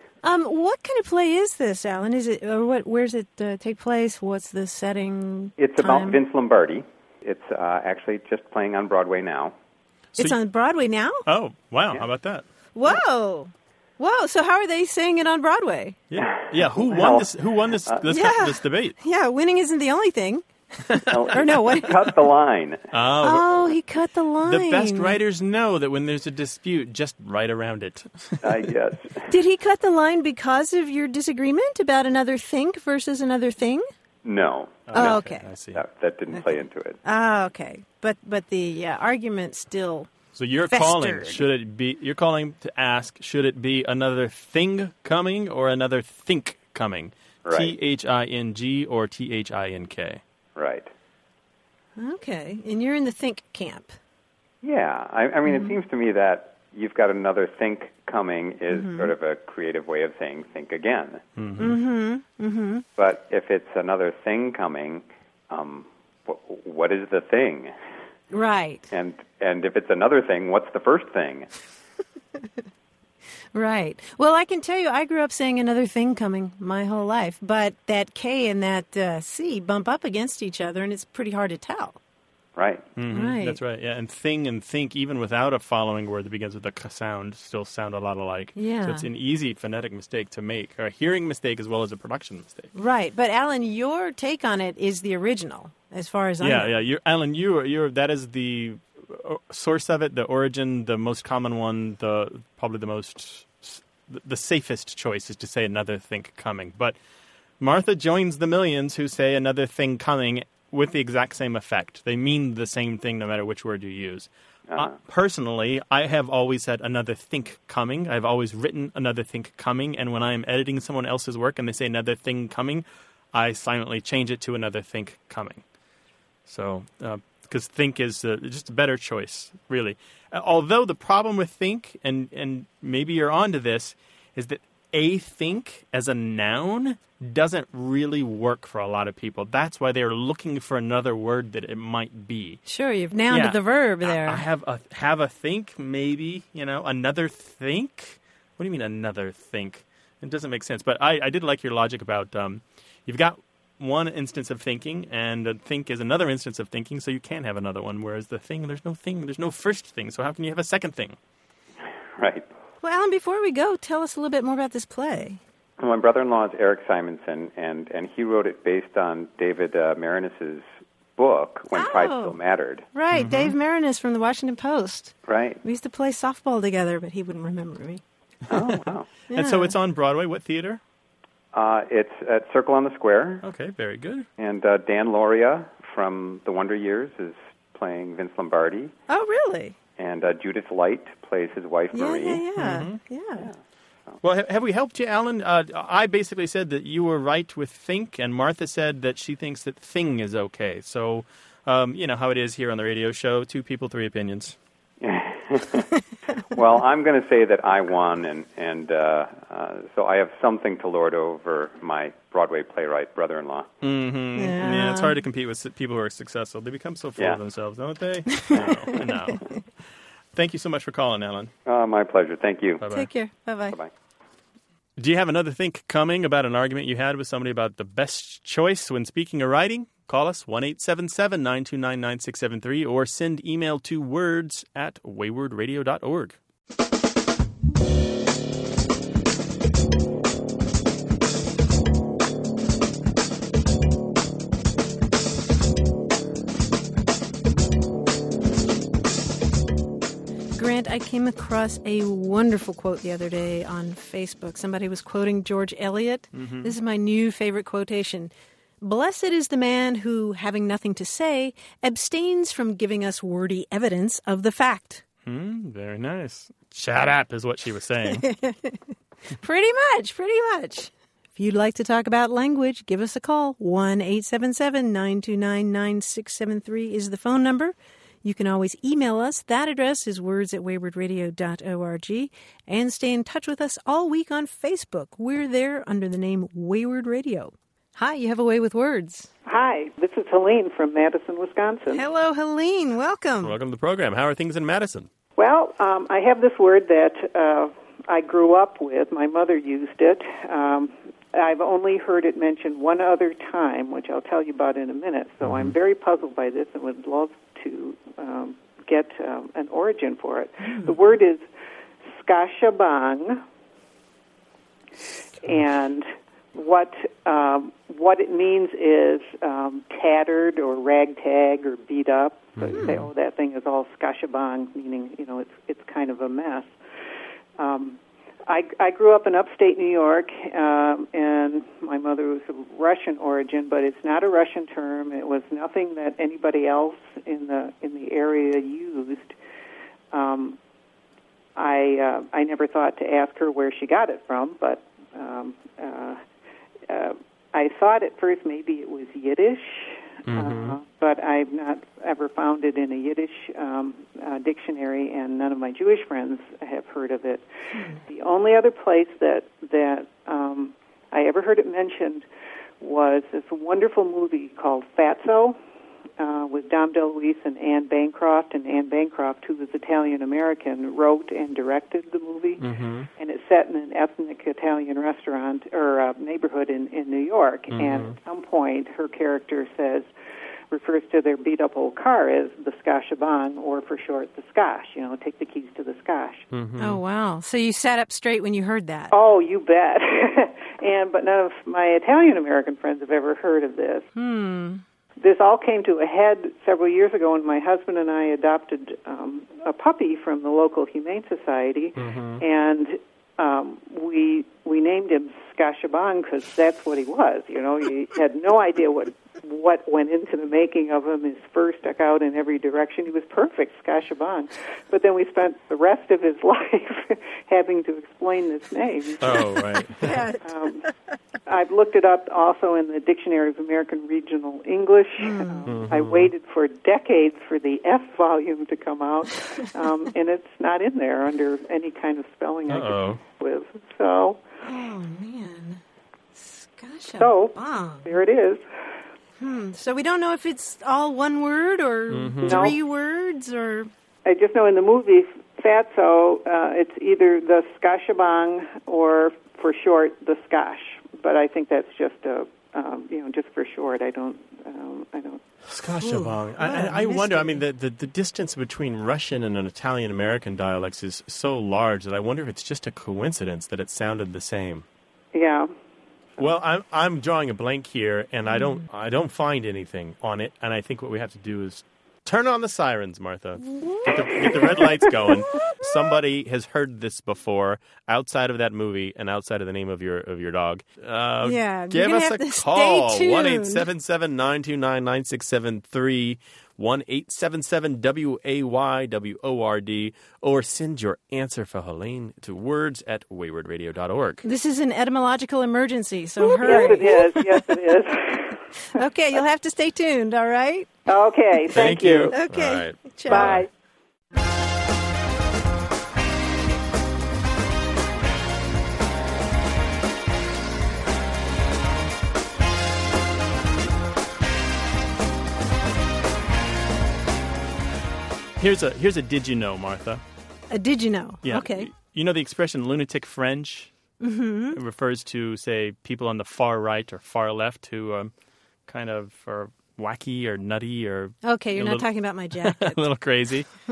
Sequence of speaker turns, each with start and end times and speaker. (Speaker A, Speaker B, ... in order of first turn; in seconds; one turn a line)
Speaker A: 0.2-6.2
Speaker B: 5.6-9.5
Speaker A: 10.2-11.2
Speaker C: 11.2-12.9
Speaker A: 12.7-16.0
Speaker C: 16.1-18.9
Speaker B: 16.2-18.0
Speaker A: 18.1-20.4
Speaker C: 20.9-21.9
Speaker B: 21.1-22.9
Speaker A: 21.3-21.9
Speaker C: 22.9-23.7
Speaker A: 23.2-25.2
Speaker C: 24.4-28.6
Speaker B: 28.4-29.3
Speaker A: 29.3-33.9
Speaker B: 34.2-35.1
Speaker C: 34.9-35.8
Speaker A: 34.9-35.5
Speaker B: 35.7-37.0
Speaker A: 36.3-40.1
Speaker C: 40.3-50.2
Speaker A: 40.7-41.5
Speaker B: 47.4-47.7
Speaker B: 50.5-50.9
Speaker A: 52.0-53.9
Speaker B: 54.6-61.2
Speaker A: 55.5-55.8
Speaker A: 58.7-59.1
Speaker C: 61.4-61.8
Speaker A: 61.6-62.8
Speaker B: 63.0-67.7
Speaker A: 68.3-68.9
Speaker B: 68.9-71.5
Speaker A: 73.5-82.0
Speaker B: 82.5-82.9
Speaker C: 83.0-92.7
Speaker A: 83.1-83.6
Speaker A: 88.6-89.1
Speaker A: 92.7-96.7
Speaker C: 96.4-107.0
Speaker C: 107.6-125.6
Speaker C: 126.5-142.6
Speaker A: 142.7-144.4
Speaker C: 143.3-161.2
Speaker B: 162.2-162.4
Speaker A: 162.8-165.4
Speaker B: 165.8-172.8
Speaker A: 171.7-172.4
Speaker A: 172.9-178.0
Speaker C: 173.1-173.5
Speaker B: 175.2-175.6
Speaker B: 178.5-179.1
Speaker A: 179.3-179.7
Speaker C: 179.3-180.8
Speaker B: 181.5-183.4
Speaker C: 183.4-184.2
Speaker B: 184.4-188.9
Speaker A: 189.1-189.8
Speaker B: 190.0-192.4
Speaker A: 191.9-193.5
Speaker C: 192.6-193.0
Speaker B: 193.4-194.2
Speaker C: 194.2-204.6
Speaker B: 205.0-205.9
Speaker B: 206.5-213.7
Speaker C: 213.8-219.4
Speaker A: 214.3-215.1
Speaker A: 218.4-218.8
Speaker C: 220.3-221.5
Speaker B: 221.7-222.8
Speaker C: 222.8-223.1
Speaker A: 222.9-223.8
Speaker C: 225.0-236.4
Speaker A: 250.6-265.0
Speaker C: 256.3-256.7
Speaker C: 265.2-268.2
Speaker A: 268.1-268.8
Speaker A: 269.4-289.3
Speaker D: 289.4-292.0
Speaker A: 291.9-293.6
Speaker C: 293.4-295.1
Speaker D: 295.4-311.4
Speaker C: 305.4-305.7
Speaker A: 310.7-310.9
Speaker D: 312.1-313.4
Speaker D: 315.4-326.7
Speaker C: 322.6-323.1
Speaker A: 322.7-323.1
Speaker D: 327.6-339.3
Speaker D: 340.1-340.6
Speaker D: 341.6-346.2
Speaker D: 346.9-357.4
Speaker C: 350.3-350.8
Speaker D: 358.1-362.2
Speaker D: 362.8-365.6
Speaker D: 366.2-372.7
Speaker C: 372.6-373.1
Speaker D: 373.2-380.1
Speaker C: 377.7-378.1
Speaker D: 380.7-386.5
Speaker C: 386.5-387.0
Speaker A: 386.8-389.1
Speaker D: 389.1-394.1
Speaker A: 394.1-394.8
Speaker D: 395.2-419.4
Speaker C: 402.0-402.4
Speaker C: 419.2-420.2
Speaker A: 420.0-420.4
Speaker D: 420.4-420.8
Speaker D: 421.4-434.4
Speaker A: 425.2-425.7
Speaker C: 425.7-426.3
Speaker C: 432.7-433.2
Speaker A: 434.6-435.8
Speaker A: 436.3-438.1
Speaker D: 437.1-438.6
Speaker A: 439.4-443.9
Speaker C: 442.1-442.7
Speaker D: 442.4-442.7
Speaker D: 444.2-455.4
Speaker C: 455.7-464.8
Speaker A: 455.9-457.6
Speaker D: 465.3-465.7
Speaker C: 466.4-494.4
Speaker A: 473.7-474.8
Speaker A: 481.4-483.9
Speaker A: 494.4-497.6
Speaker D: 496.4-498.5
Speaker A: 498.9-500.9
Speaker D: 501.1-502.4
Speaker C: 501.7-503.6
Speaker A: 502.3-503.6
Speaker D: 503.3-503.7
Speaker C: 518.6-520.2
Speaker A: 520.7-521.9
Speaker C: 521.4-523.9
Speaker A: 524.2-524.8
Speaker C: 524.7-528.3
Speaker C: 528.9-533.7
Speaker A: 531.5-533.0